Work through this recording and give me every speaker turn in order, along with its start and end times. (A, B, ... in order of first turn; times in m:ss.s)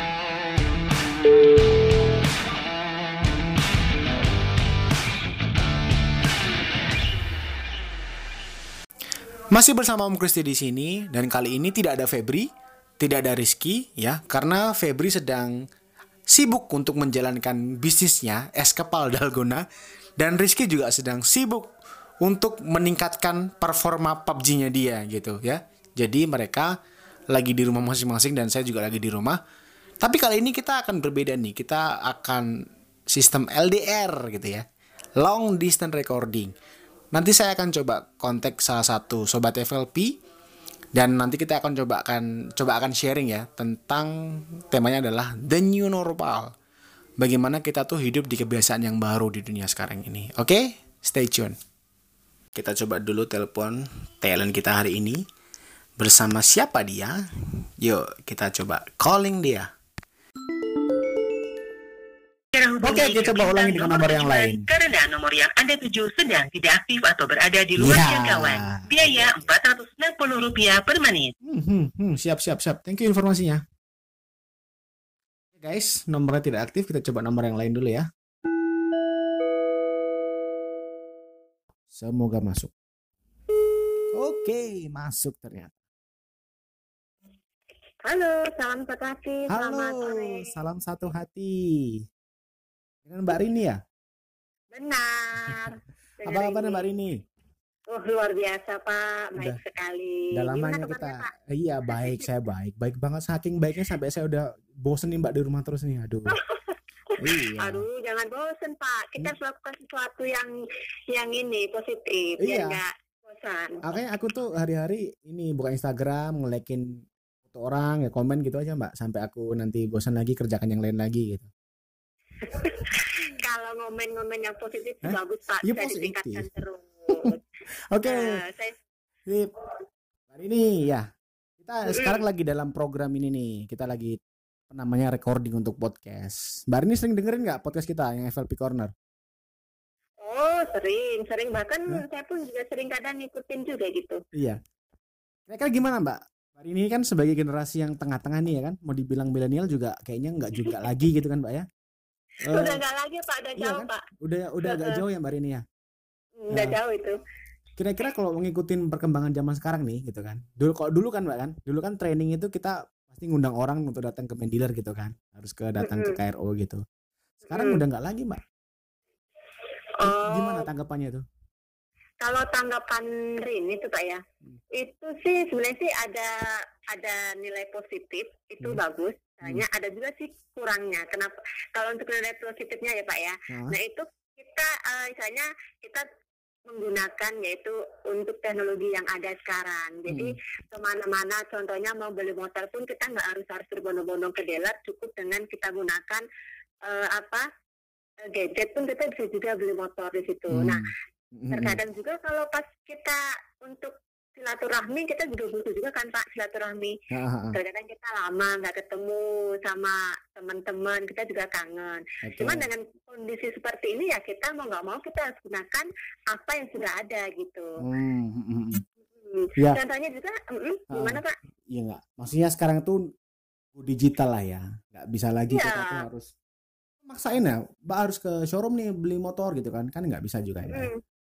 0:09.5-0:12.5 A
0:13.0-0:15.6 A
0:16.3-0:19.6 A
0:20.2-0:21.7 A
0:22.2-0:26.8 A
0:27.3-0:29.4 A
0:30.0-0:32.5 A
0:33.1-0:34.6 A
0:35.2-0:36.5 A
0:37.1-0:40.2 A
0:40.9-0:46.5 A
0:47.2-0:51.6 A
0:52.5-0:55.2 A
0:56.0-0:59.7 A
1:02.5-1:11.3 B
1:02.8-1:04.7 A
1:07.8-1:09.3 A
1:11.4-1:13.6 A
1:15.6-1:18.1 A
1:21.9-1:22.7 A
1:24.1-1:25.7 A
1:28.0-1:30.5 C
1:29.5-1:32.0 A
1:33.0-1:33.8 A
1:34.7-1:36.8 C
1:36.2-1:37.2 A
1:37.9-1:41.3 C
1:40.3-1:46.4 A
1:41.9-1:42.3 C
1:46.3-1:50.5 C
1:47.2-1:47.8 A
1:51.1-1:53.8 C
1:52.4-1:52.8 A
1:53.8-2:01.5 A
2:02.4-2:07.4 C
2:05.0-2:06.4 A
2:07.1-2:08.4 A
2:08.0-2:08.8 C
2:09.3-2:09.5 A
2:10.3-2:11.1 A
2:11.6-2:14.2 A
2:11.9-2:12.2 C
2:14.7-2:18.9 A
2:20.2-2:24.2 C
2:24.3-2:24.6 A
2:25.5-2:31.6 A
2:32.4-2:32.8 A
2:32.5-2:34.0 C
2:33.6-2:35.6 A
2:34.6-2:35.0 C
2:36.4-2:37.2 C
2:36.5-2:36.8 A
2:37.8-2:46.8 A
2:45.8-2:46.2 C
2:47.5-2:48.4 A
2:47.5-2:47.8 C
2:50.0-2:50.7 C
2:50.0-2:51.2 A
2:52.2-3:06.0 C
3:03.5-3:03.8 A
3:06.7-3:16.2 C
3:10.1-3:10.3 A
3:16.8-3:17.5 C
3:18.2-3:20.9 C
3:20.5-3:21.8 A
3:21.5-3:27.0 C
3:27.1-3:27.6 A
3:27.5-3:37.7 C
3:32.2-3:32.6 A
3:37.8-3:38.8 A
3:39.1-3:41.3 C
3:40.9-3:43.0 A
3:43.7-3:46.3 A
3:45.5-3:46.0 C
3:47.0-3:50.9 A
3:50.7-3:51.0 C